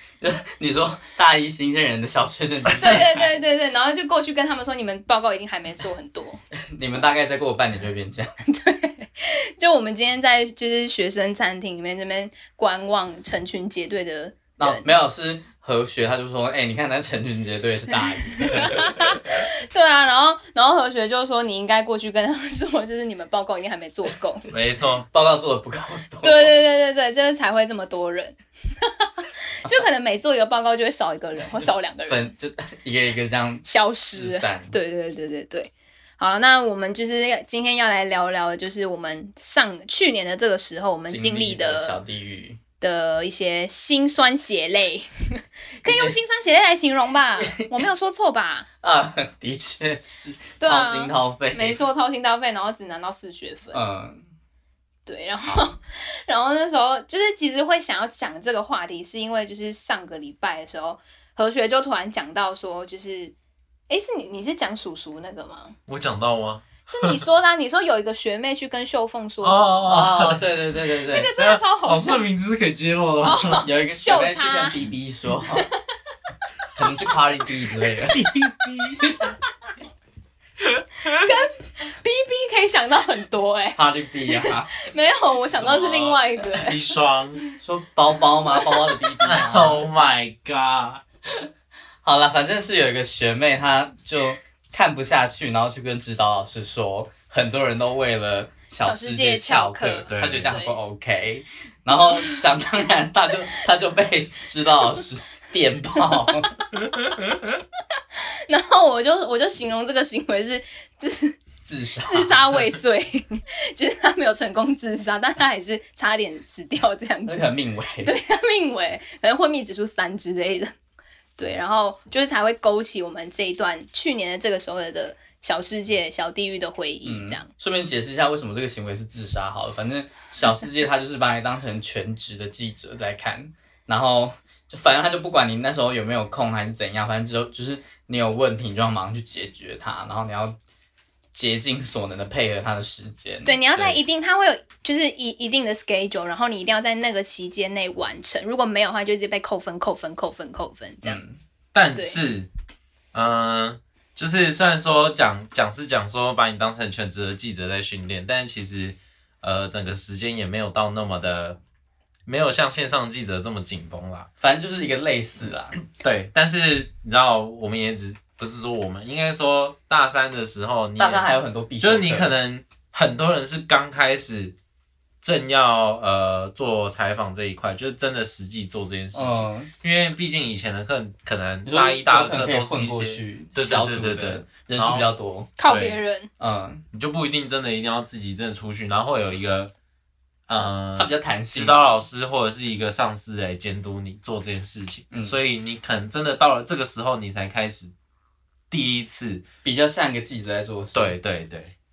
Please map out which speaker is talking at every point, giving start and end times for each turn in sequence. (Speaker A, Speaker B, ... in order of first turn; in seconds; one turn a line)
Speaker A: 0.2-3.3
Speaker B: 2.7-6.4
Speaker A: 6.6-8.3
Speaker B: 8.4-14.8
Speaker A: 14.6-19.4
Speaker B: 17.9-24.4
Speaker C: 18.5-18.8
Speaker C: 24.5-25.1
Speaker A: 25.1-26.5
Speaker B: 26.2-32.2
Speaker A: 32.1-34.7
Speaker B: 33.6-42.0
Speaker A: 41.1-42.6
Speaker B: 42.8-48.7
Speaker A: 45.8-46.2
Speaker A: 47.4-47.8
Speaker A: 48.8-51.8
Speaker B: 50.6-53.8
Speaker A: 53.7-54.3
Speaker B: 55.0-63.3
Speaker B: 63.9-65.7
Speaker C: 65.9-67.2
Speaker B: 66.9-70.1
Speaker C: 69.4-70.5
Speaker A: 69.9-71.3
Speaker B: 71.0-72.2
Speaker C: 71.4-73.7
Speaker B: 73.2-74.8
Speaker A: 73.6-75.7
Speaker A: 76.8-78.3
Speaker C: 78.1-79.1
Speaker C: 80.6-81.3
Speaker B: 81.1-86.9
Speaker A: 83.7-84.7
Speaker C: 85.5-87.4
Speaker A: 87.6-89.8
Speaker B: 88.5-89.0
Speaker C: 89.2-91.0
Speaker A: 92.0-106.5
Speaker B: 98.8-100.7
Speaker C: 100.1-100.6
Speaker B: 106.1-106.8
Speaker C: 107.0-107.5
Speaker B: 108.5-111.4
Speaker A: 111.6-112.4
Speaker B: 112.0-117.5
Speaker A: 117.3-118.1
Speaker B: 118.0-120.7
Speaker B: 121.4-127.5
Speaker A: 127.0-140.6
Speaker A: 141.3-143.6
Speaker B: 143.4-151.2
Speaker A: 151.0-151.4
Speaker C: 151.7-152.5
Speaker C: 153.1-161.6
Speaker C: 162.2-164.3
Speaker A: 164.4-165.8
Speaker C: 166.0-174.5
Speaker A: 171.0-172.3
Speaker C: 175.2-185.1
Speaker A: 179.1-179.7
Speaker A: 181.6-185.5
Speaker B: 185.6-186.3
Speaker C: 185.6-186.0
Speaker A: 186.4-186.8
Speaker C: 186.9-189.7
Speaker C: 190.5-197.9
Speaker A: 190.9-191.8
Speaker A: 195.1-195.3
Speaker C: 198.7-199.4
Speaker A: 199.6-201.1
Speaker C: 200.9-201.7